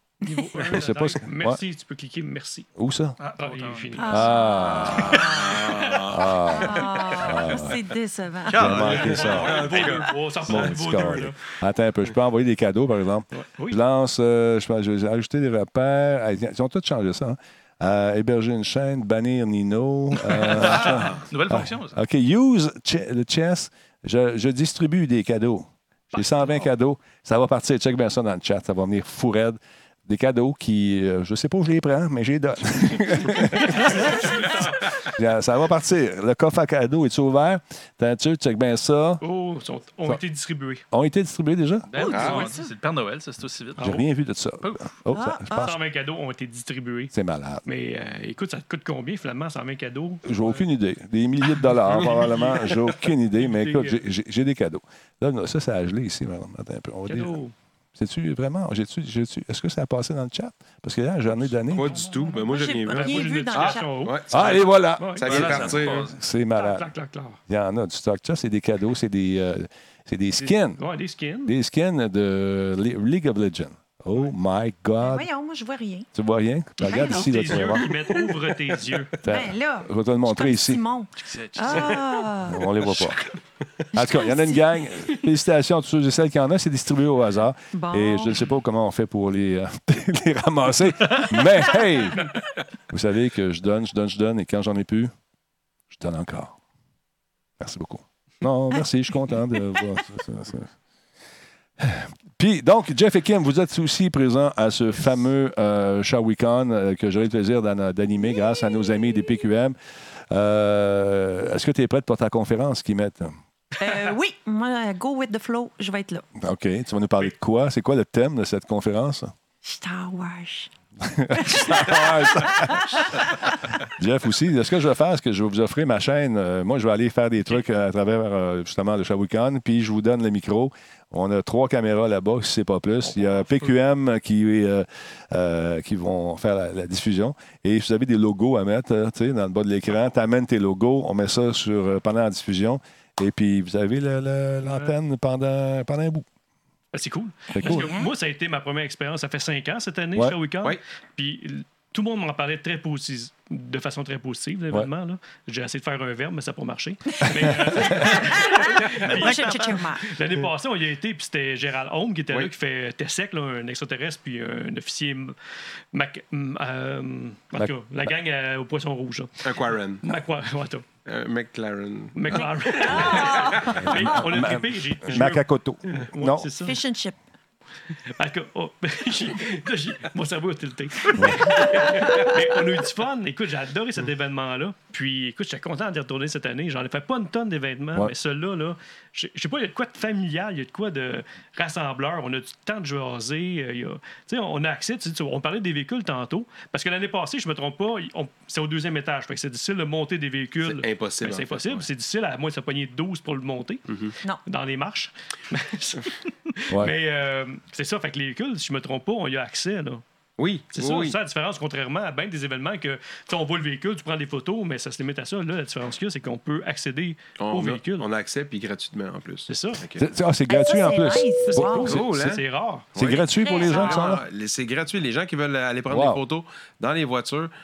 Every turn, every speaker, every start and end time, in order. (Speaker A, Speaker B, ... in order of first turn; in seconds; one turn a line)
Speaker A: 0.2-2.7
Speaker B: 0.5-1.6
Speaker B: 2.8-3.2
Speaker C: 3.2-5.1
Speaker A: 3.4-6.0
Speaker D: 4.0-9.1
Speaker B: 4.1-7.8
Speaker E: 5.3-6.3
Speaker C: 8.4-10.0
Speaker B: 8.5-9.8
Speaker A: 8.7-11.4
Speaker E: 9.4-10.1
Speaker B: 10.5-39.2
Speaker A: 13.3-13.8
Speaker C: 20.3-21.9
Speaker A: 26.1-26.6
Speaker A: 33.4-35.0
Speaker A: 39.2-40.8
Speaker B: 40.9-41.9
Speaker C: 41.9-44.0
Speaker A: 41.9-42.5
Speaker D: 42.0-42.3
Speaker E: 42.1-42.5
Speaker A: 43.8-44.0
Speaker B: 43.8-45.8
Speaker C: 44.6-44.9
Speaker D: 45.1-45.8
Speaker A: 45.5-47.1
Speaker B: 47.1-47.6
Speaker A: 47.6-50.6
Speaker B: 50.2-57.4
Speaker A: 52.1-52.7
Speaker A: 53.4-54.0
Speaker A: 57.1-57.5
Speaker B: 57.9-61.9
Speaker C: 61.7-62.4
Speaker E: 61.7-66.1
Speaker D: 62.3-63.9
Speaker A: 62.9-65.6
Speaker B: 64.3-66.9
Speaker C: 65.2-66.2
Speaker A: 66.5-67.4
Speaker B: 67.5-70.8
Speaker A: 70.4-71.5
Speaker B: 71.5-75.3
Speaker D: 75.0-76.1
Speaker B: 76.1-77.8
Speaker D: 76.8-78.2
Speaker A: 76.9-79.2
Speaker B: 79.2-80.8
Speaker D: 79.2-82.7
Speaker C: 81.2-83.3
Speaker B: 82.4-83.2
Speaker D: 83.9-84.8
Speaker B: 83.9-92.3
Speaker D: 87.7-88.4
Speaker B: 92.9-95.1
Speaker B: 95.9-96.6
Speaker B: 97.6-100.7
Speaker B: 101.8-109.8
Speaker B: 110.3-113.3
Speaker D: 113.8-116.3
Speaker B: 116.4-119.3
Speaker D: 119.6-120.7
Speaker B: 121.0-123.2
Speaker D: 121.3-123.5
Speaker B: 123.8-146.2
Speaker A: 144.6-144.9
Speaker A: 146.9-165.3
Speaker B: 147.5-147.9
Speaker D: 147.6-148.1
Speaker D: 157.4-160.0
Speaker B: 157.7-158.0
Speaker C: 158.7-159.9
Speaker A: 165.9-169.5
Speaker B: 167.6-168.1
Speaker E: 169.4-170.0
Speaker A: 170.0-170.8
Speaker E: 171.1-173.3
Speaker A: 172.1-176.8
Speaker D: 172.3-174.2
Speaker B: 173.7-176.5
Speaker D: 176.6-177.2
Speaker A: 178.1-203.8
Speaker B: 181.1-181.4
Speaker D: 181.5-182.4
Speaker E: 200.6-201.8
Speaker E: 203.9-204.1
Speaker A: 204.4-210.0
Speaker E: 210.4-211.2
Speaker A: 210.7-218.1
Speaker E: 217.4-220.1
Speaker A: 219.5-219.8
Speaker B: 220.0-221.8
Speaker D: 220.5-221.9
Speaker A: 221.4-222.9
Speaker E: 221.8-222.4
Speaker E: 222.9-227.5
Speaker B: 222.9-224.2
Speaker D: 223.4-224.1
Speaker B: 225.9-226.2